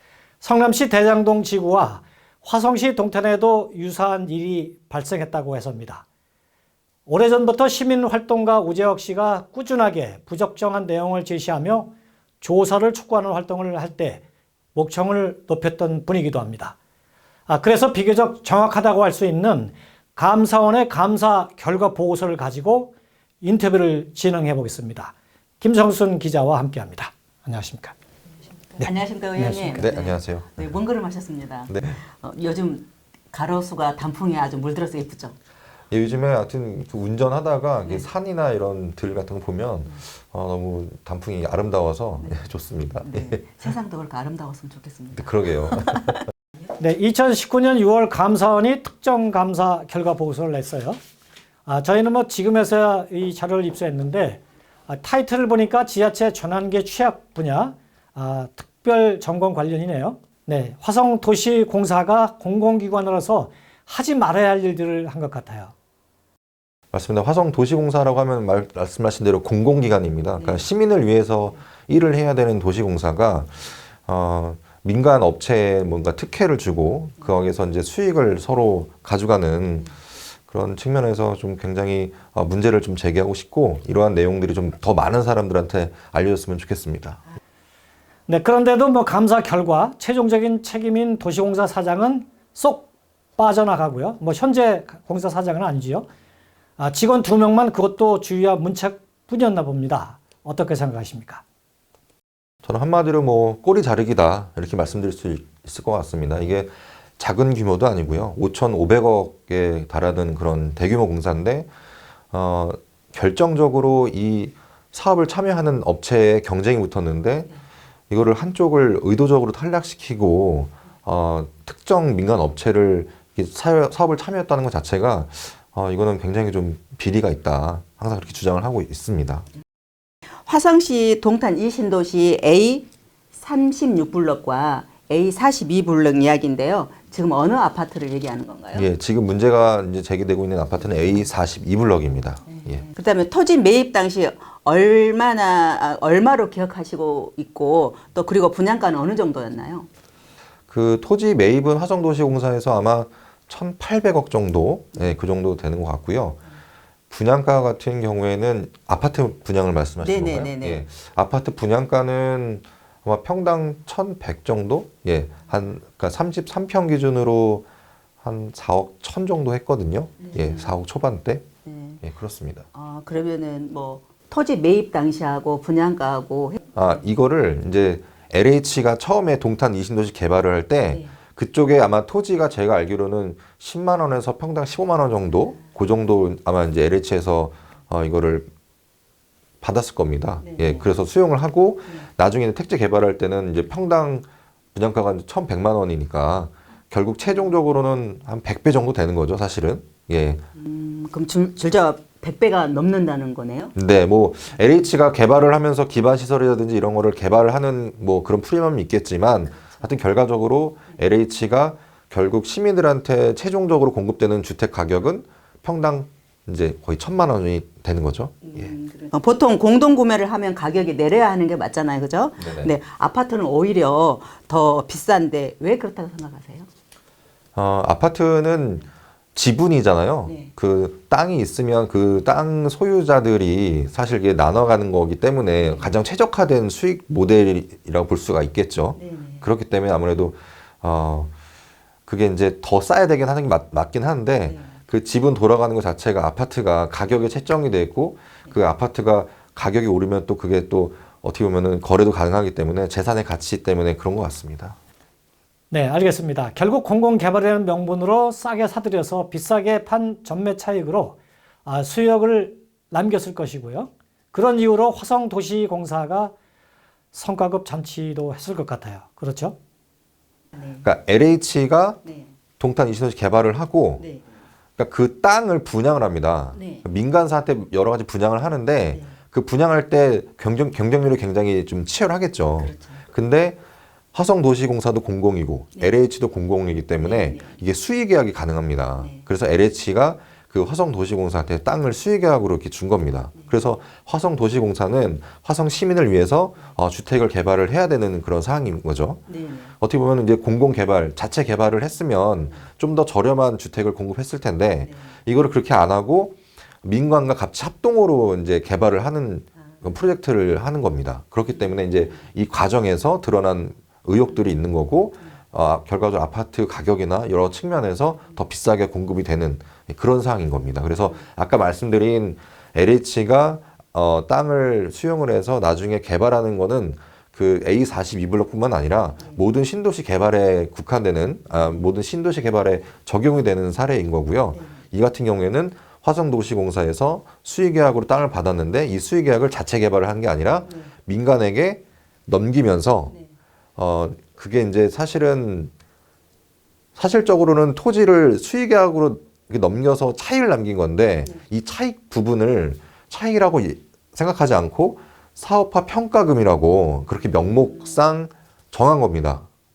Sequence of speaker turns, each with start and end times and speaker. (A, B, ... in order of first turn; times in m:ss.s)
0:00.4-0:06.0 A
0:07.1-0:14.2 A
0:14.7-0:16.8 A
0:17.5-0:27.9 A
0:28.8-0:35.3 B
0:28.8-0:29.8 A
0:29.7-0:30.8 C
0:31.7-0:32.0 C
0:35.9-0:43.4 C
0:43.0-0:46.1 B
0:45.1-0:46.1 C
0:46.8-0:51.0 A
0:51.6-1:05.7 A
1:06.9-1:19.9 C
1:10.4-1:10.6 B
1:20.5-1:27.2 C
1:28.3-1:36.1 A
1:36.8-1:41.4 A
1:42.6-1:51.7 C
1:52.3-1:57.5 C
1:58.1-2:09.4 C
2:10.4-2:18.9 B
2:18.7-2:22.8 C
2:22.5-2:29.9 B
2:30.7-2:36.4 C
2:37.1-2:47.7 C
2:40.0-2:40.8 B
2:48.2-2:51.4 C
2:50.2-2:50.7 B
2:51.6-2:52.0 B
2:52.0-2:52.7 C
2:52.7-2:56.9 B
2:56.7-3:08.5 C
3:09.6-3:20.4 C
3:10.4-3:10.8 B
3:17.2-3:17.5 B
3:20.6-3:23.7 B
3:23.7-3:38.7 C
3:38.4-3:46.7 B
3:42.4-3:42.7 C
3:47.6-3:48.8 C
3:49.3-4:01.3 C
3:50.2-3:50.5 B
3:55.6-3:56.0 B
3:59.0-3:59.4 B
4:02.1-4:14.8 C
4:04.4-4:04.7 B
4:15.7-4:26.3 A
4:27.1-4:29.6 A
4:30.5-4:30.8 B
4:30.8-4:32.0 C
4:32.0-4:32.3 B
4:32.6-4:34.0 C
4:34.0-4:34.2 B
4:34.8-4:43.6 C
4:36.5-4:36.8 B
4:42.6-4:43.0 B
4:44.1-4:59.2 C
4:47.0-4:47.6 B
4:49.0-4:49.2 B
4:59.3-4:59.7 B
4:59.8-5:43.1 C
5:04.8-5:05.1 B
5:31.5-5:31.8 B
5:40.6-5:40.9 B
5:43.8-5:45.7 C
5:47.0-5:59.4 C